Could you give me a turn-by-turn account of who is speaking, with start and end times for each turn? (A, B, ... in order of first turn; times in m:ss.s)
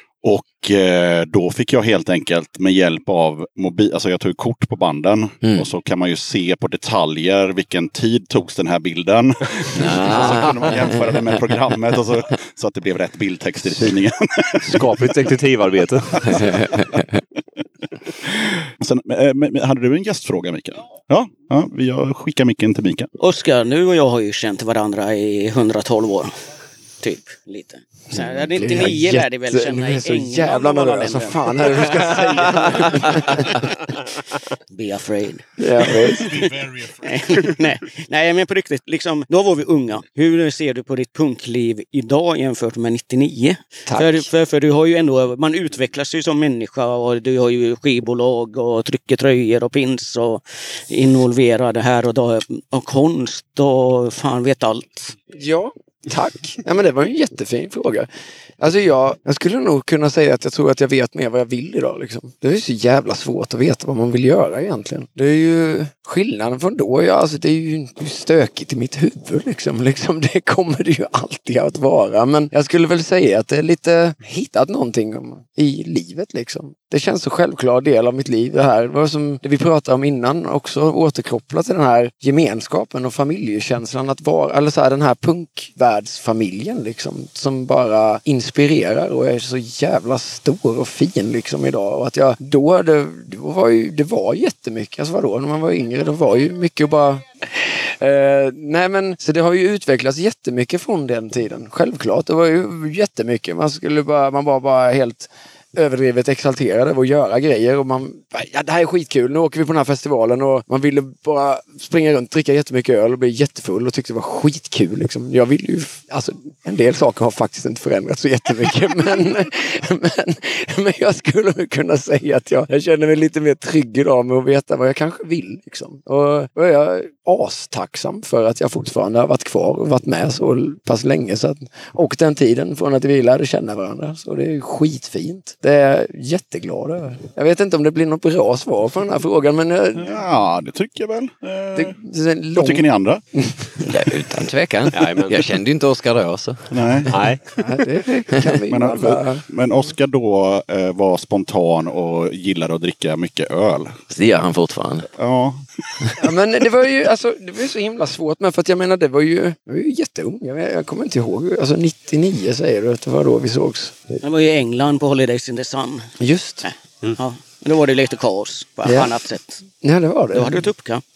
0:00.2-0:15.0 A
0:09.8-0:11.2 B
0:10.1-0:10.6 C
0:14.6-0:16.7 C
0:16.3-0:17.0 B
0:18.8-0:23.1 A
0:23.2-0:26.3 D
0:27.0-0:33.1 D
0:28.1-0:33.7 E
0:34.7-0:55.1 D
0:35.6-0:36.5 E
0:43.9-0:44.2 E
0:55.3-0:58.1 E
0:58.6-2:20.1 E
2:20.0-2:22.0 A
2:21.8-2:23.7 E
2:22.5-2:23.2 A
2:23.9-2:27.1 B
2:24.9-2:25.4 C
2:26.7-2:27.1 A
2:27.1-2:27.4 C
2:27.6-2:29.4 E
2:28.7-2:34.0 A
2:34.1-2:35.1 B
2:35.2-2:36.1 A
2:36.2-2:44.1 E
2:44.2-2:46.1 D
2:46.2-2:46.7 E
2:46.6-2:49.6 D
2:48.8-2:49.1 E
2:49.8-2:50.7 E
2:50.3-2:51.0 D